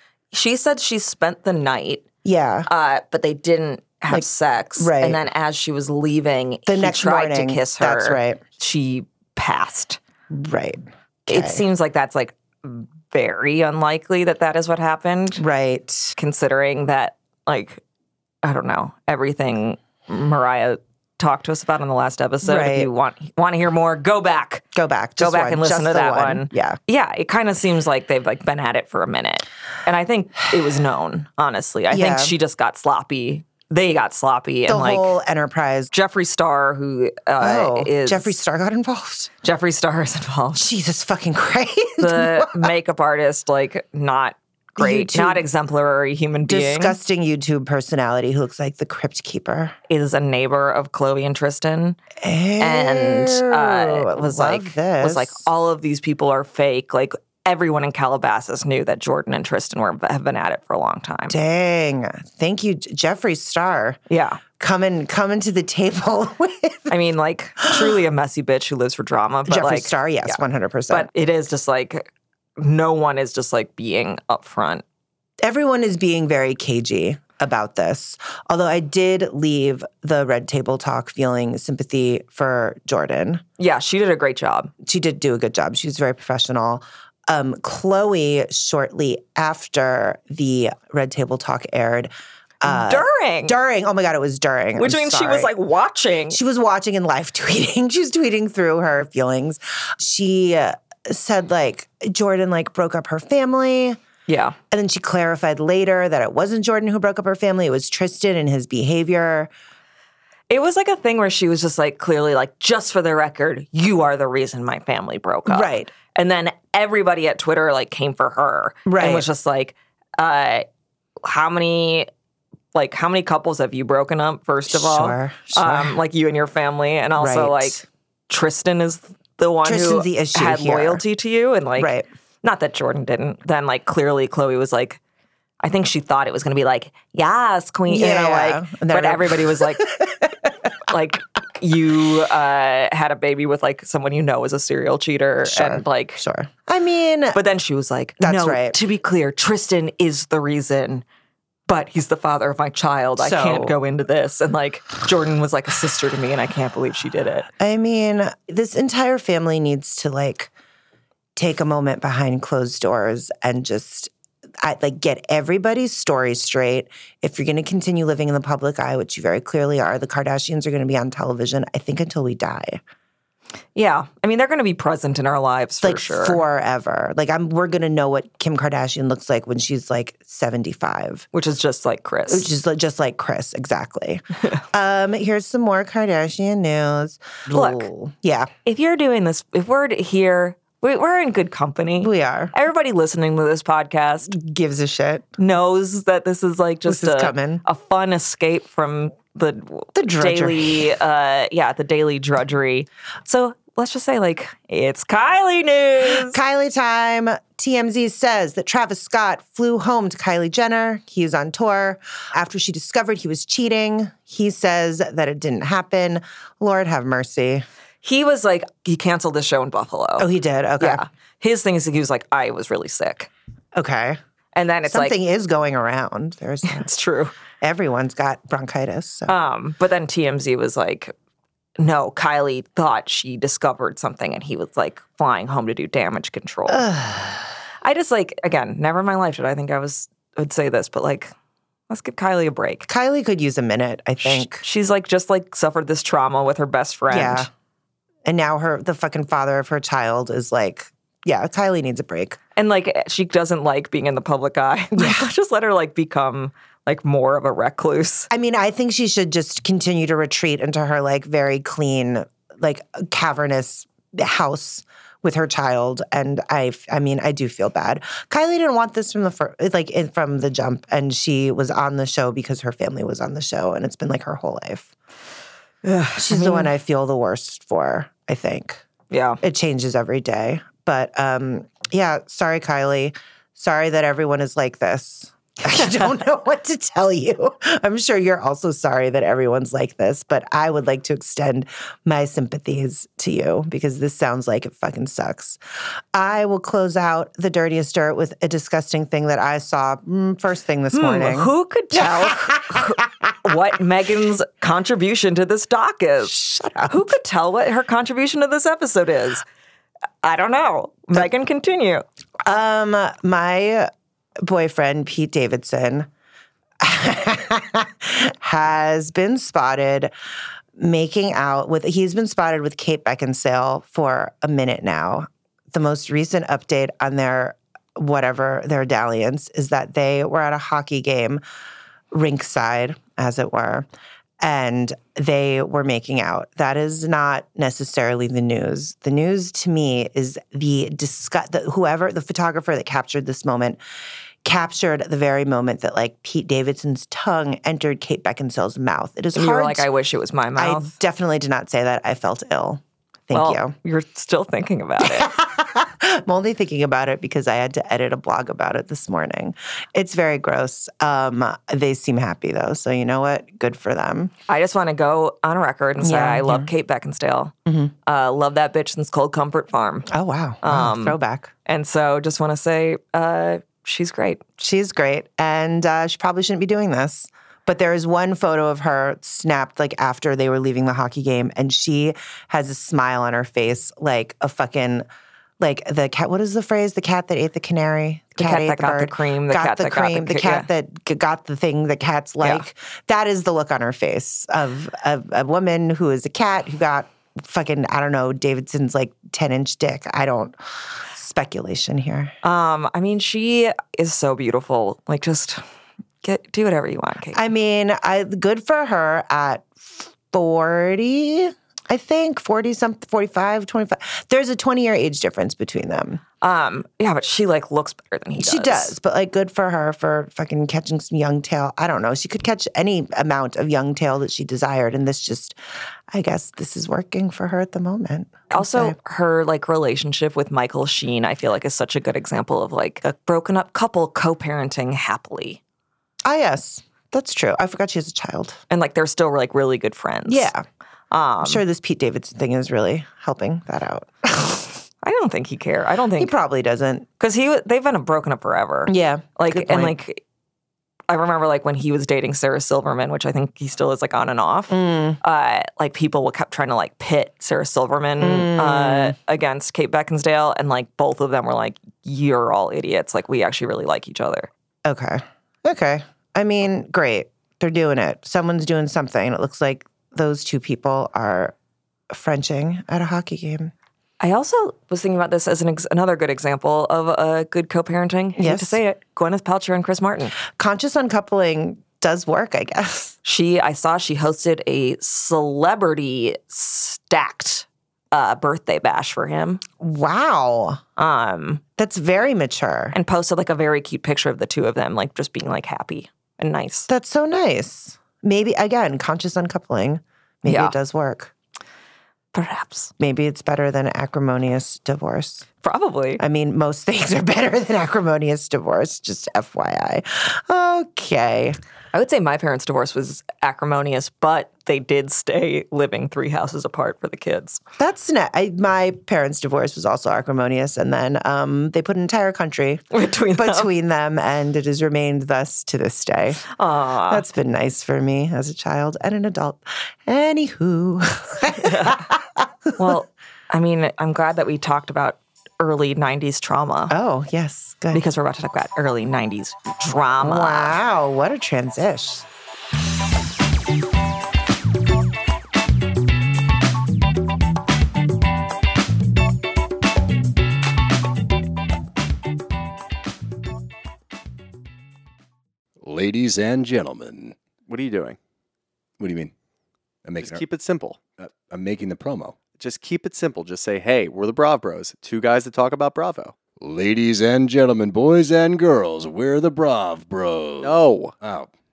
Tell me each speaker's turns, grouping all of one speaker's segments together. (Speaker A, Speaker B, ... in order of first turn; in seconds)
Speaker A: 0.3-2.1, 2.7-10.0, 11.3-15.4, 16.2-17.8, 18.4-24.6, 25.2-35.1, 35.9-38.4, 39.4-40.7, 42.0-47.0, 49.9-52.0, 52.6-61.4, 64.1-64.4, 66.9-70.4, 70.9-74.8, 83.6-84.7, 92.6-93.6, 94.8-96.4, 104.3-104.6, 110.5-120.7, 121.2-122.1, 122.7-135.0, 135.6-139.9, 140.9-146.2, 147.3-151.1, 151.7-157.5, 173.8-176.4, 181.3-182.5, 187.5-187.9, 188.7-194.4, 195.4-206.4, 218.0-223.3, 224.5-225.2, 226.7-227.3, 229.3-231.1, 231.8-236.8, 237.8-241.3, 241.9-242.9, 244.2-247.5, 252.6-258.3, 275.8-276.7, 279.1-279.4, 285.7-286.0, 300.9-306.4, 306.9-309.4, 310.2-312.1, 349.3-350.9, 353.3-355.3, 364.5-367.5, 368.1-370.1, 370.6-374.4, 388.4-390.7, 402.4-405.6, 406.2-407.4, 416.4-418.9, 428.5-435.6, 438.7-440.5, 441.1-441.6, 445.0-446.3, 447.2-450.2, 451.1-464.5, 474.2-480.4, 483.2-489.6, 491.0-491.6, 492.9-496.9, 500.5-500.8, 502.3-502.9, 505.6-506.2, 511.9-517.6, 522.9-523.7, 526.5-527.2, 531.6-532.0, 532.8-536.9, 537.9-540.8
Speaker B: 2.2-2.7, 4.1-5.2, 6.7-8.4, 10.3-11.6, 15.4-16.1, 22.4-22.9, 24.7-26.8, 31.9-32.4, 34.7-35.9, 37.4-39.3, 40.6-42.7, 44.8-45.5, 46.5-49.8, 52.2-55.4, 61.3-64.0, 64.6-66.9, 67.7-68.0, 69.5-71.1, 75.4-83.4, 84.8-92.1, 92.6-95.5, 96.3-104.0, 104.7-109.5, 115.5-115.9, 118.9-119.3, 124.7-126.0, 127.2-127.8, 129.6-131.0, 131.8-132.1, 137.9-140.5, 145.4-147.4, 148.2-148.8, 153.2-153.8, 157.6-160.5, 161.4-172.8, 175.8-181.3, 182.3-188.5, 192.0-192.5, 194.3-195.3, 196.9-197.6, 199.9-200.9, 206.0-217.7, 220.2-221.0, 223.8-224.2, 224.9-226.9, 227.6-229.3, 236.7-237.5, 242.9-244.6, 247.1-247.5, 248.2-252.4, 254.9-255.3, 258.3-274.9, 276.2-278.8, 279.4-295.6, 296.1-302.9, 306.2-307.1, 312.4-316.1, 316.8-320.1, 320.8-331.4, 332.1-333.9, 334.4-343.8, 344.4-349.9, 350.6-353.8, 355.0-364.3, 366.0-366.7, 367.7-367.9, 370.1-371.5, 374.6-385.1, 385.6-402.3, 407.3-416.2, 418.4-425.6, 426.1-429.0, 436.2-438.6, 440.3-440.6, 441.4-444.6, 446.2-447.1, 448.9-450.0, 454.7-455.2, 458.2-459.2, 464.9-471.6, 472.1-473.7, 478.4-478.8, 480.5-483.2, 489.8-490.8, 491.8-493.0, 496.9-501.3, 503.0-505.5, 506.2-511.6, 517.8-526.5, 527.1-532.5, 536.9-538.0, 540.2-542.3
Speaker C: 555.8-557.4, 559.0-559.3, 560.0-560.4, 561.2-562.4, 566.6-571.5
Speaker D: 557.7-558.2, 560.2-561.0, 562.5-566.3, 570.6-571.1